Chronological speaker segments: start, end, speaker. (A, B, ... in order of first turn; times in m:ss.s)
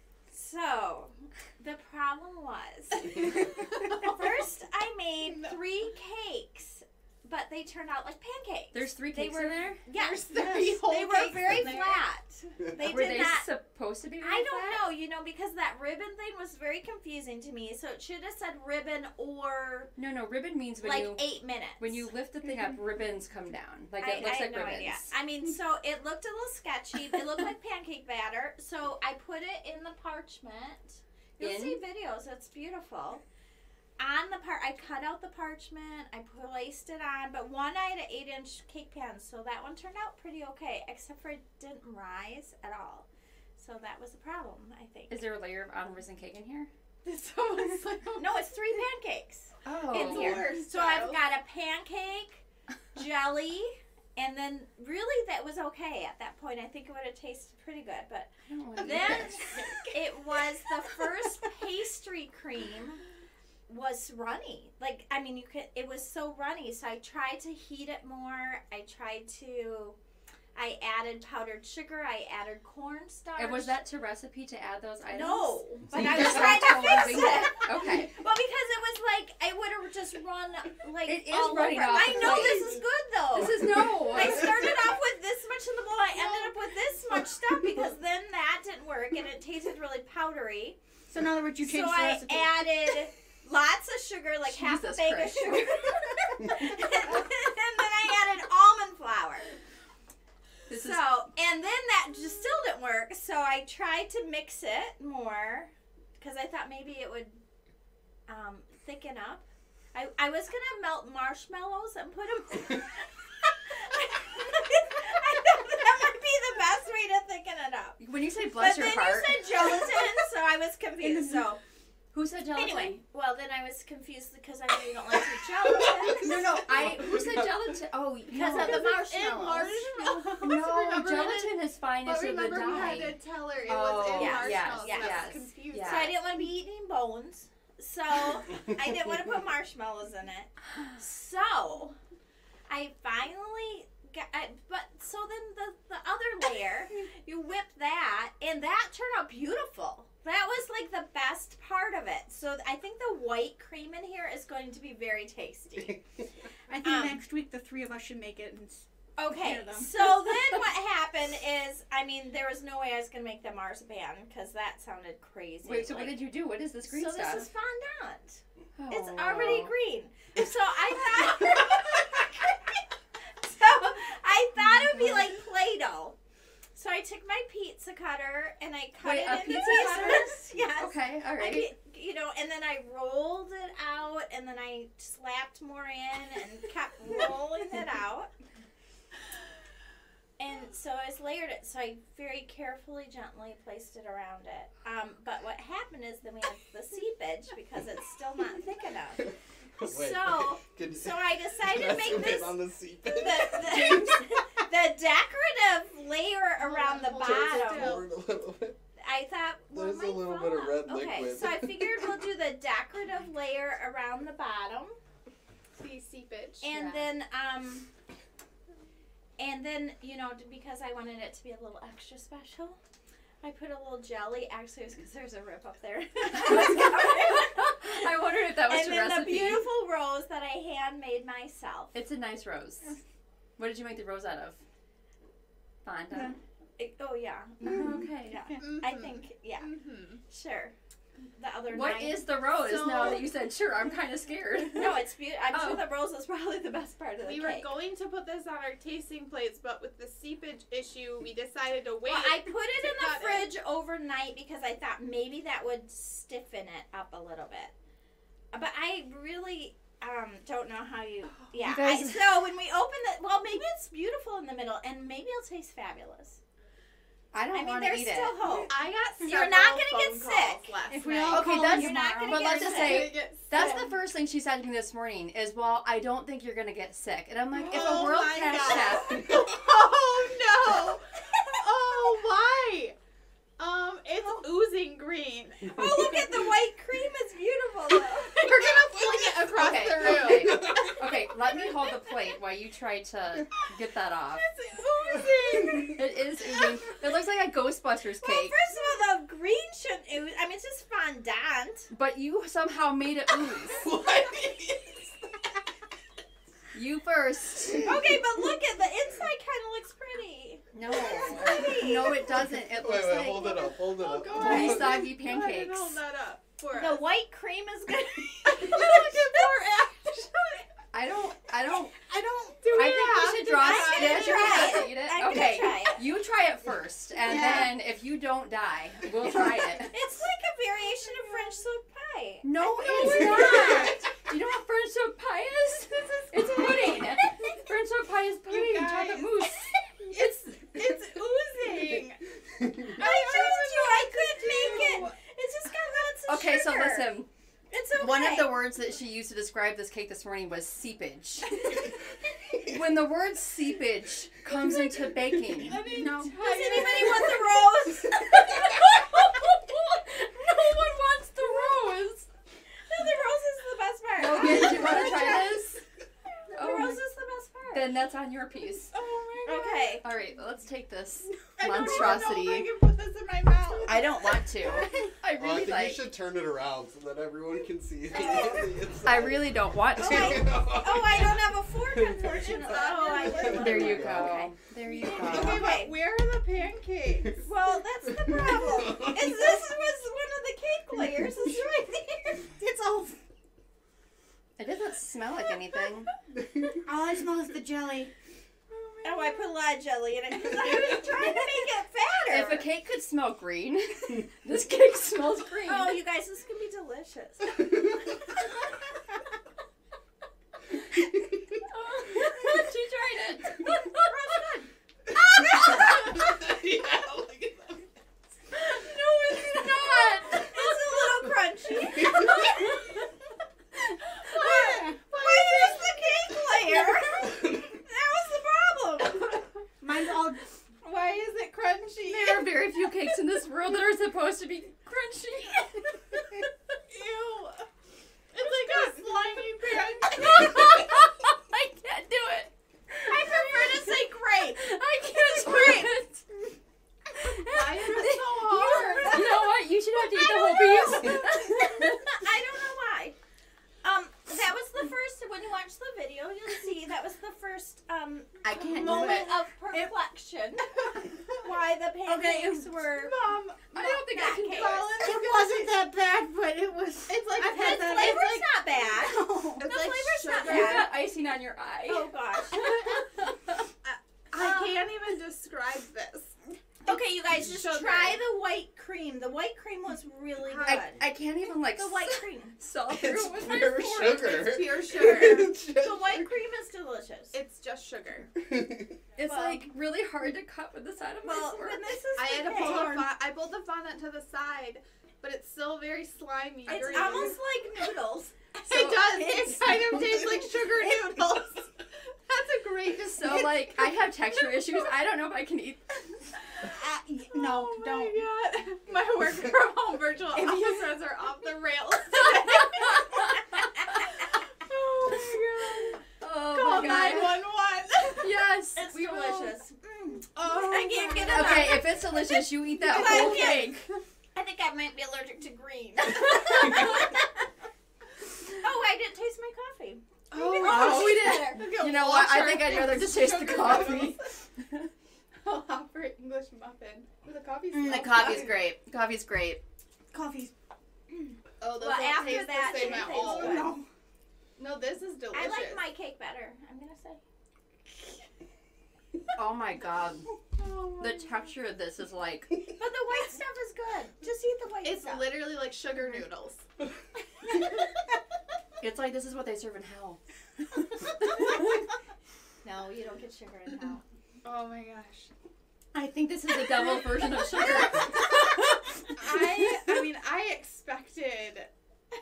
0:00.3-0:13.5 A
0:03.7-0:04.4 B
0:05.2-0:05.6 B
0:08.7-0:09.8 C
0:09.9-0:12.0 B
0:12.8-0:14.8 C
0:14.2-0:19.9 A
0:20.0-0:21.3 C
0:20.8-0:22.1 A
0:21.8-0:25.1 C
0:24.0-0:33.2 A
0:31.4-0:31.8 C
0:34.0-0:45.2 A
0:45.1-0:46.7 C
0:47.0-0:48.4 B
0:48.2-0:52.4 A
0:49.6-0:50.5 C
0:49.9-0:51.2 B
0:52.9-1:03.0 A
0:58.5-0:59.5 C
0:58.9-1:00.0 B
1:03.7-1:10.0 A
1:10.5-1:13.8 A
1:13.4-1:18.1 C
1:15.1-1:30.8 A
1:21.0-1:22.8 C
1:23.3-1:24.7 C
1:26.1-1:26.5 B
1:31.1-1:32.9 D
1:31.6-1:39.5 A
1:34.4-1:35.9 C
1:40.7-1:41.1 C
1:40.7-1:47.4 A
1:48.3-1:58.0 A
1:58.0-1:59.7 C
1:58.5-2:01.6 A
2:01.0-2:01.5 D
2:02.1-2:03.0 C
2:02.5-2:06.6 A
2:05.8-2:07.7 E
2:06.1-2:08.9 C
2:08.3-2:10.3 A
2:08.4-2:16.2 B
2:10.4-2:16.2 C
2:12.6-2:13.0 A
2:14.1-2:22.0 A
2:22.7-2:36.0 A
2:36.7-2:40.3 D
2:36.8-2:37.2 A
2:39.2-2:46.3 A
2:45.6-2:47.5 C
2:46.8-2:52.8 A
2:48.8-2:49.7 C
2:53.4-2:56.2 A
2:56.7-3:08.3 A
2:59.0-3:01.7 C
3:10.4-3:28.0 A
3:19.8-3:24.4 E
3:26.6-3:28.1 B
3:27.2-3:28.8 E
3:29.0-3:35.0 A
3:29.7-3:32.1 E
3:35.7-3:36.7 B
3:36.6-3:37.9 A
3:36.8-3:37.0 C
3:39.4-3:42.8 A
3:43.4-3:52.0 A
3:46.4-3:49.7 C
3:51.9-3:53.0 C
3:53.6-3:54.6 C
3:55.8-3:56.4 C
3:56.8-3:59.7 A
3:57.6-3:58.5 C
3:58.6-4:00.2 B
4:00.3-4:00.7 A
4:01.3-4:02.3 A
4:01.7-4:05.9 C
4:02.5-4:03.3 B
4:04.7-4:07.7 A
4:07.2-4:13.5 B
4:12.0-4:17.7 A
4:18.5-4:26.4 A
4:21.6-4:22.4 C
4:27.3-4:28.4 C
4:27.5-4:33.8 A
4:28.5-4:31.5 B
4:30.9-4:32.8 D
4:31.3-4:39.4 C
4:32.5-4:33.9 B
4:37.5-4:43.0 B
4:43.6-4:46.2 B
4:45.7-4:48.5 A
4:48.2-4:52.0 B
4:48.5-4:51.0 E
4:49.4-4:54.5 C
4:54.3-4:56.6 B
4:55.7-4:58.6 C
4:58.2-5:01.9 A
5:01.9-5:03.9 C
5:03.7-5:05.1 E
5:06.7-5:08.1 C
5:07.8-5:12.2 A
5:10.7-5:13.7 C
5:11.4-5:15.0 E
5:13.5-5:17.0 B
5:14.3-5:16.0 C
5:16.7-5:19.4 A
5:18.4-5:20.6 B
5:20.9-5:22.1 C
5:22.0-5:24.9 B
5:22.7-5:29.9 C
5:23.4-5:26.0 A
5:27.3-5:27.7 D
5:29.8-5:33.9 A
5:32.4-5:40.6 C
5:32.8-5:33.9 B
5:36.2-5:37.0 B
5:38.5-5:39.4 B
5:40.0-5:42.2 B
5:42.8-5:45.2 B
5:43.0-5:47.2 A
5:46.3-5:47.3 C
5:47.7-5:48.7 A
5:47.9-5:51.8 C
5:52.6-5:55.8 C
5:55.5-5:57.7 B
5:55.9-5:59.3 A
5:56.0-5:56.3 D
5:58.4-6:02.3 C
6:02.9-6:05.8 A
6:04.2-6:05.8 C
6:04.6-6:05.4 B
6:06.5-6:07.9 A
6:06.5-6:07.0 C
6:07.7-6:08.9 C
6:08.9-6:10.0 B
6:09.4-6:10.0 A
6:10.0-6:12.7 C
6:11.6-6:15.0 B
6:13.8-6:16.1 C
6:15.3-6:24.5 E
6:18.1-6:18.7 A
6:19.0-6:20.6 C
6:20.0-6:24.5 A
6:22.2-6:24.0 B
6:23.4-6:25.8 C
6:25.0-6:27.5 B
6:25.1-6:26.0 A
6:27.4-6:32.4 A
6:28.2-6:29.3 E
6:32.5-6:33.2 D
6:34.6-6:36.1 C
6:36.8-6:38.1 D
6:38.7-6:39.5 B
6:39.0-6:42.7 A
6:42.3-6:46.0 C
6:45.6-6:47.8 A
6:51.7-6:54.1 C
6:53.6-6:54.6 A
6:55.4-6:56.1 A
6:55.4-6:57.8 E
6:58.7-7:00.6 C
6:59.6-7:02.9 A
7:04.2-7:09.5 A
7:04.2-7:06.4 B
7:09.8-7:10.4 D
7:10.8-7:12.8 B
7:12.0-7:16.2 C
7:16.9-7:17.6 B
7:18.3-7:20.7 B
7:20.0-7:23.9 C
7:23.0-7:25.9 A
7:24.6-7:26.2 C
7:27.1-7:33.2 A
7:27.4-7:29.4 B
7:28.6-7:32.2 C
7:33.8-7:43.2 A
7:38.4-7:39.3 C
7:38.7-7:39.2 B
7:42.1-7:42.7 D
7:42.8-7:45.8 B
7:43.7-7:44.9 A
7:43.7-7:44.8 C
7:45.0-7:49.7 D
7:47.1-7:48.4 B
7:47.4-7:51.0 A
7:49.6-7:51.0 B
7:50.4-7:53.3 C
7:51.8-7:52.9 A
7:52.5-7:53.0 B
7:53.8-7:56.4 B
7:54.3-7:54.8 A
7:56.8-8:02.6 A
7:57.4-7:58.2 B
8:00.4-8:00.8 B
8:00.6-8:04.2 C
8:03.0-8:06.4 E
8:03.0-8:05.6 B
8:04.9-8:07.4 A
8:07.3-8:08.3 B
8:08.6-8:08.9 E
8:09.2-8:11.9 C
8:09.2-8:09.7 A
8:11.2-8:13.1 A
8:12.2-8:17.4 B
8:16.6-8:20.4 A
8:18.6-8:24.8 B
8:23.0-8:26.3 C
8:26.6-8:28.2 D
8:27.3-8:38.5 B
8:30.3-8:30.8 D
8:36.2-8:37.4 C
8:36.4-8:37.3 A
8:38.2-8:39.3 C
8:38.8-8:42.2 A
8:39.1-8:39.5 B
8:40.3-8:41.8 B
8:41.2-8:43.9 C
8:42.8-8:43.8 A
8:42.9-8:43.7 B
8:44.3-8:47.2 A
8:48.6-8:51.7 A
8:50.3-8:54.4 B
8:50.4-8:54.9 C
8:55.4-8:58.6 B
8:57.7-8:59.6 C
9:00.1-9:00.5 D
9:01.6-9:03.8 B
9:01.8-9:03.8 A
9:02.7-9:03.8 D
9:04.6-9:05.8 B
9:05.3-9:07.2 A
9:09.3-9:10.3 C
9:10.6-9:11.0 B
9:11.0-9:12.6 C
9:12.8-9:15.4 A
9:14.8-9:16.6 B
9:18.8-9:21.7 C
9:22.6-9:24.0 A
9:24.4-9:25.3 B
9:25.9-9:28.9 C
9:27.6-9:28.0 B
9:29.1-9:31.7 B